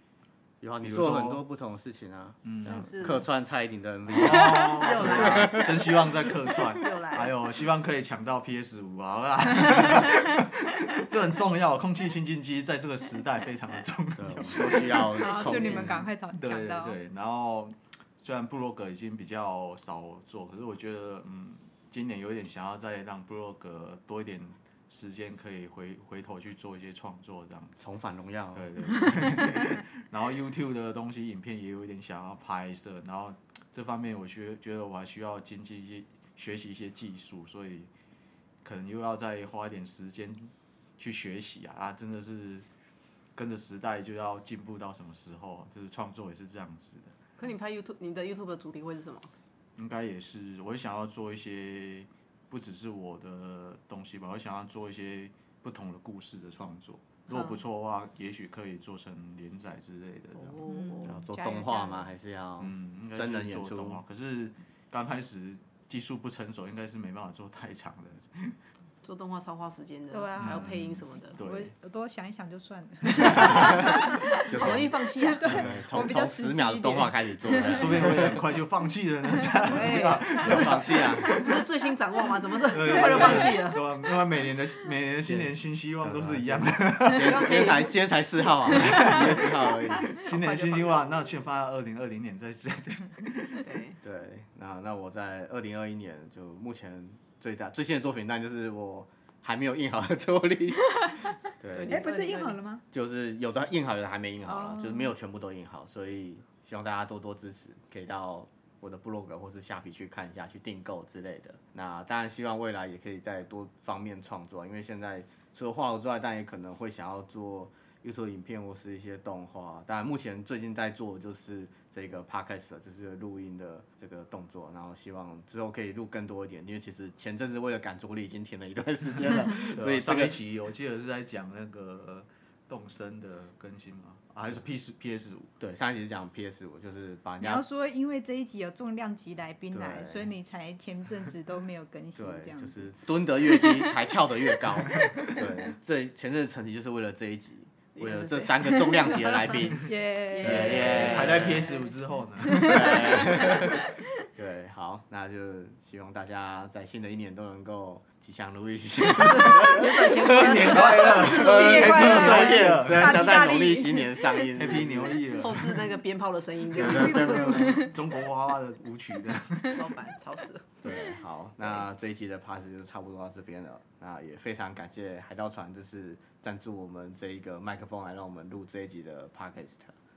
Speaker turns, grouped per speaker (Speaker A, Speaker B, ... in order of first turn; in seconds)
Speaker A: 0.6-5.8, 14.2-16.1, 27.8-28.8, 61.0-64.0, 73.4-78.4, 80.4-81.3, 85.3-90.1, 94.0-102.0, 102.9-130.4, 135.6-137.6, 139.7-140.3, 142.2-151.7, 152.6-165.2, 166.7-167.9, 170.8-179.9
Speaker B: 0.8-1.4, 2.4-2.9, 4.1-27.8, 28.5-37.9, 38.6-42.7, 43.4-47.1, 49.8-60.6, 62.6-68.6, 70.4-71.7, 73.2-73.6, 75.5-75.8, 77.7-81.5, 82.7-87.7, 88.7-93.7, 129.7-135.5, 150.4-153.1, 160.2-163.2, 164.6-165.7, 167.6-169.9
Speaker C: 2.6-3.3, 4.3-5.9, 6.7-7.3, 47.4-49.3, 57.3-57.6, 60.4-61.2, 69.0-71.4, 74.5-75.6, 79.7-80.6, 81.3-83.8, 87.2-87.9, 90.3-91.2, 93.6-94.0, 101.7-102.6, 147.9-149.6, 150.5-151.3, 159.2-162.5, 165.3-167.7, 169.7-170.7
Speaker D: 14.4-17.0, 60.7-62.1, 70.1-70.7, 71.4-74.6, 75.2-78.2, 82.9-83.6, 101.9-102.8, 104.5-105.1, 137.4-142.7, 143.5-143.9, 149.9-151.6, 152.4-153.9, 160.8-164.8, 166.7-168.0